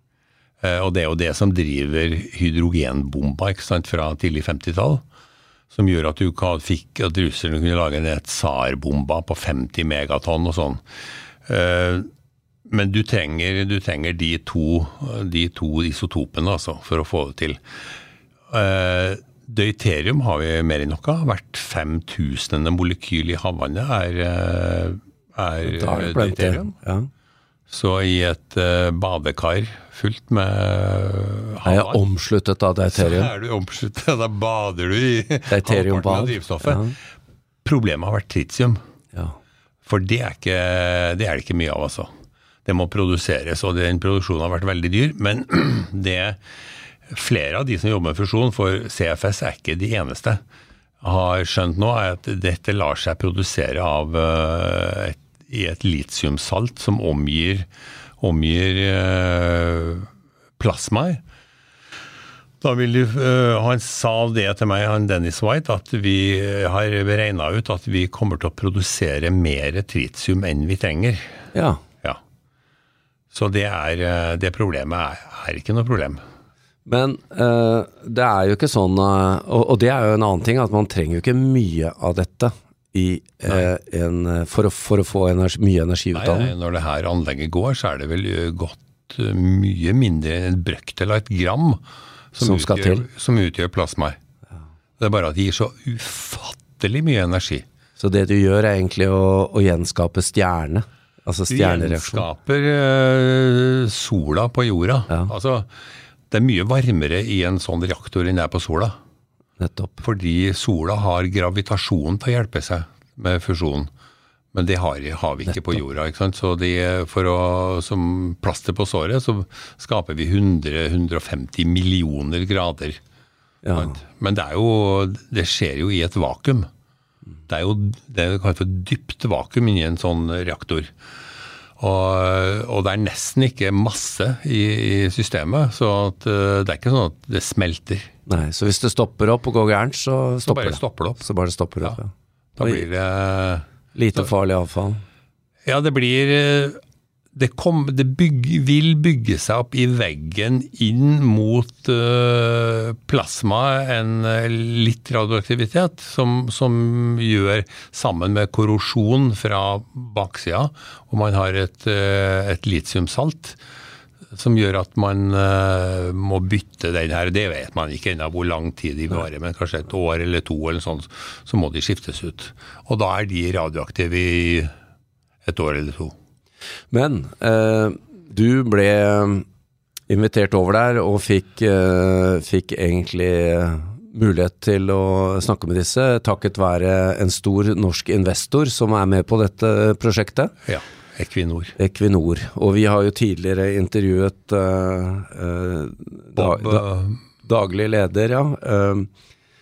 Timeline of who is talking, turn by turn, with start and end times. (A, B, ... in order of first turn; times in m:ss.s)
0:00.6-0:05.0 A
0:05.7-0:10.8 A
0:11.5-0:12.1 A
0:12.7-0:17.6 A
0:18.5-0:26.7 A
0:25.6-0:27.1 B
0:27.7-0:32.0 A
0:31.6-0:33.3 B
0:32.9-0:36.8 A
0:35.5-0:37.0 B
0:37.6-0:38.8 A
0:39.9-0:42.1 A
0:42.7-0:46.4 A
0:47.1-0:50.4 A
0:51.0-0:57.7 A
0:58.2-1:01.2 A
1:02.6-1:11.4 A
1:11.5-1:11.8 B
1:13.3-1:16.2 A
1:16.9-1:26.6 B
1:26.1-1:34.2 A
1:32.4-1:33.1 B
1:35.0-1:37.6 A
1:38.0-1:42.3 B
1:41.5-1:45.7 A
1:46.3-1:49.0 A
1:49.6-1:50.0 B
1:50.0-1:53.9 A
1:54.5-2:03.0 A
1:55.5-1:55.8 B
2:03.6-2:04.0 B
2:03.8-2:06.7 A
2:07.5-2:10.9 A
2:11.8-2:18.1 A
2:18.3-2:22.1 B
2:20.4-2:21.3 A
2:22.6-2:24.3 A
2:22.6-2:22.9 B
2:23.9-2:25.0 B
2:25.6-2:26.8 A
2:27.3-2:43.6 A
2:44.3-2:54.7 A
2:55.4-2:56.1 A
2:56.9-2:59.4 B
3:00.1-3:10.5 B
3:10.6-3:11.8 A
3:11.8-3:19.1 B
3:16.4-3:17.2 A